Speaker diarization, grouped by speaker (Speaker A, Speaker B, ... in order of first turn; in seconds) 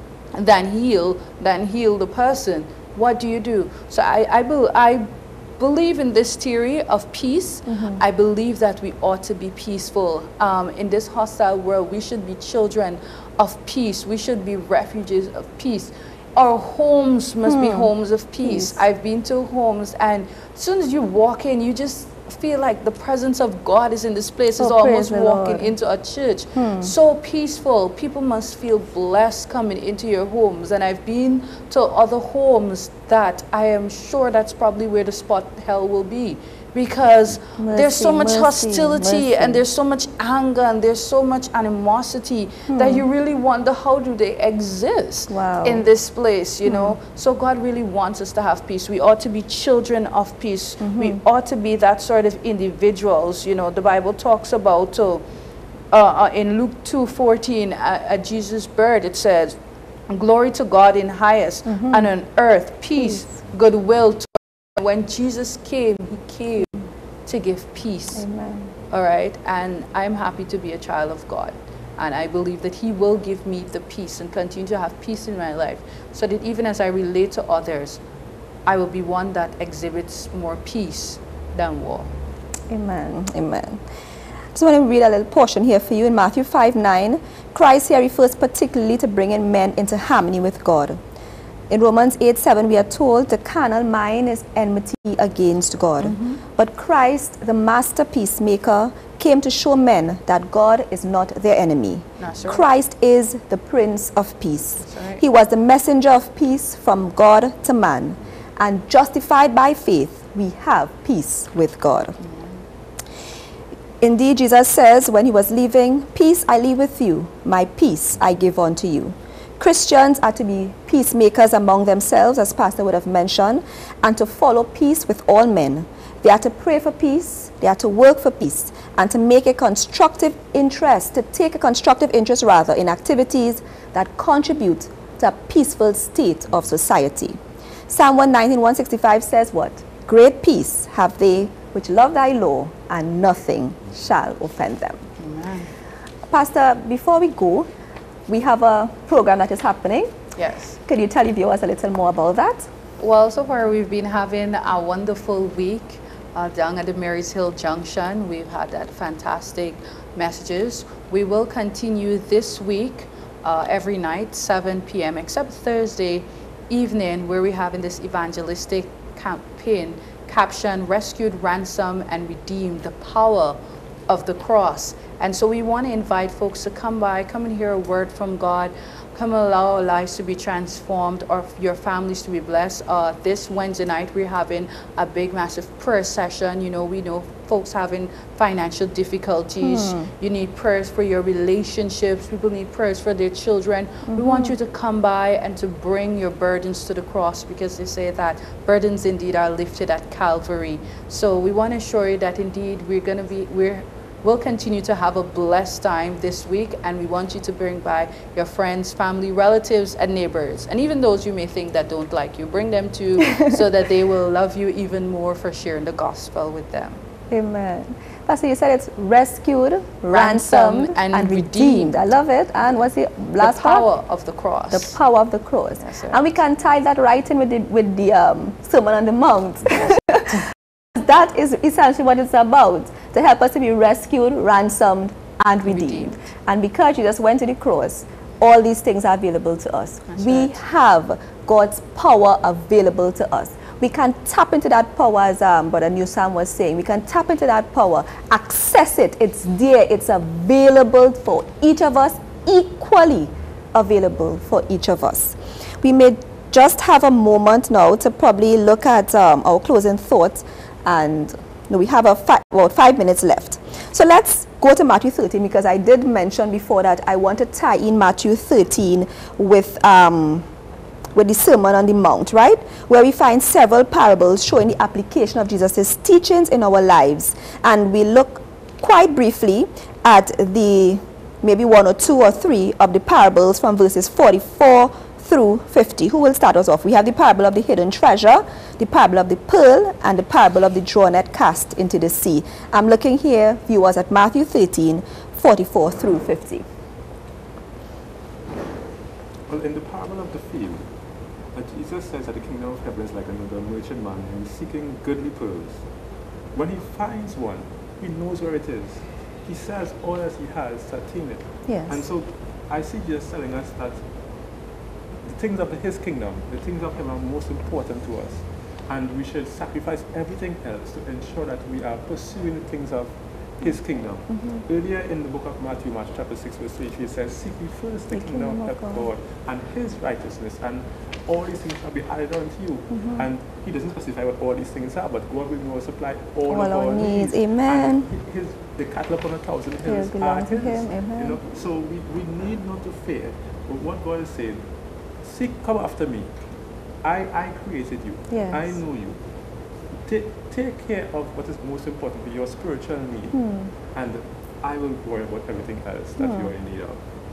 Speaker A: 0.3-55.2, 55.9-59.6, 60.1-68.2, 68.9-78.0, 78.7-82.1, 96.0-96.4, 102.2-102.7, 104.8-105.2, 112.2-112.6, 145.2-145.7, 150.3-150.8, 153.0-217.0, 220.1-221.9, 223.4-224.9, 225.8-226.2, 235.7-236.2, 240.1-240.5
Speaker B: 7.7-8.0, 17.5-17.9, 18.4-18.8, 24.6-25.7, 26.6-26.9, 37.6-39.6, 42.7-43.0, 45.3-45.8, 46.6-46.9, 50.8-51.2, 61.7-62.0, 63.0-63.2, 68.2-68.7, 82.7-83.8, 84.5-91.0, 91.7-112.2, 114.0-137.4, 137.9-145.1, 146.3-147.7, 148.3-150.2, 150.8-152.7, 189.6-190.1, 194.1-194.5, 217.3-223.8, 224.7-270.4, 271.1-296.6, 311.7-311.9, 328.1-329.1, 333.0-333.2, 336.5-338.1, 339.8-341.4, 348.3-348.7, 353.3-353.7, 356.2-356.5
Speaker C: 299.5-305.9, 306.5-314.1, 315.2-346.4, 347.0-349.3, 350.0-357.0